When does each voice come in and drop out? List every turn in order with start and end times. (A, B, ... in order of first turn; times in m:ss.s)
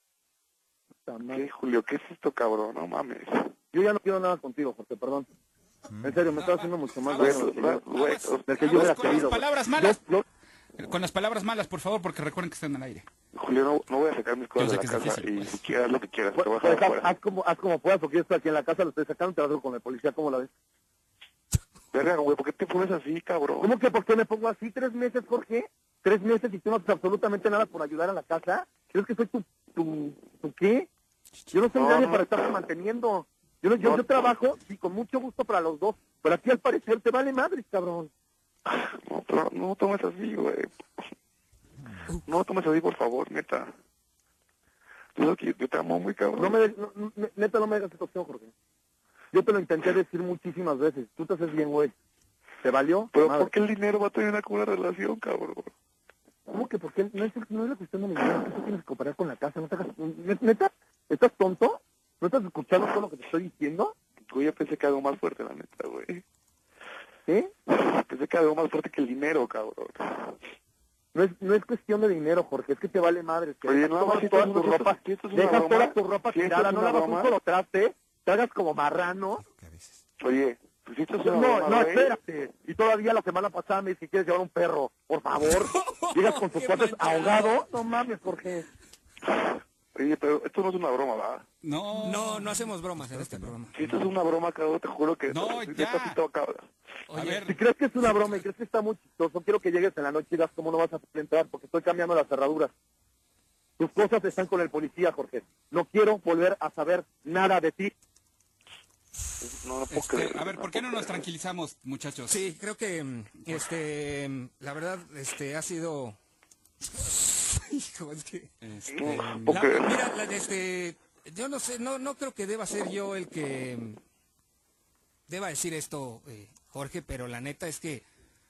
0:01.1-0:01.5 A
0:01.3-0:03.6 B
0:03.7-0:05.3 A
0:05.9-0:06.2 C
0:06.0-0:07.8 A
0:06.4-0:10.0 D
0:07.1-0:09.1 B
0:08.5-0:10.2 A
0:10.8-0:13.1 D
0:13.3-0:17.1 B
0:14.6-0:15.6 D
0:16.4-0:20.5 A
0:21.9-0:23.7 B
0:23.6-0:30.9 A
0:31.5-0:38.1 A
0:31.7-0:32.6 B
0:33.8-0:34.3 B
0:38.7-0:40.8 B
0:42.3-0:43.7 B
0:45.2-0:46.6 B
0:46.4-0:48.5 A
0:49.3-0:51.9 A
0:52.6-0:53.5 A
0:53.1-0:55.7 B
0:56.5-1:04.0 A
1:04.3-1:06.2 B
1:07.7-1:10.4 B
1:11.1-1:19.4 A
1:13.6-1:17.3 B
1:19.4-1:20.0 C
1:20.2-1:22.2 B
1:21.2-1:28.7 A
1:25.5-1:27.6 E
1:29.3-1:31.4 B
1:31.6-1:32.5 D
1:32.0-1:33.8 E
1:33.0-1:34.1 C
1:33.7-1:36.7 B
1:35.3-1:36.2 D
1:37.1-1:37.4 E
1:37.1-1:37.6 D
1:37.5-1:42.7 A
1:43.8-1:47.9 A
1:49.4-1:51.2 B
1:49.9-1:52.5 D
1:52.3-1:56.2 E
1:56.9-1:58.5 E
1:58.6-1:59.7 D
1:58.9-1:59.9 B
1:59.1-2:04.0 E
2:05.3-2:08.0 E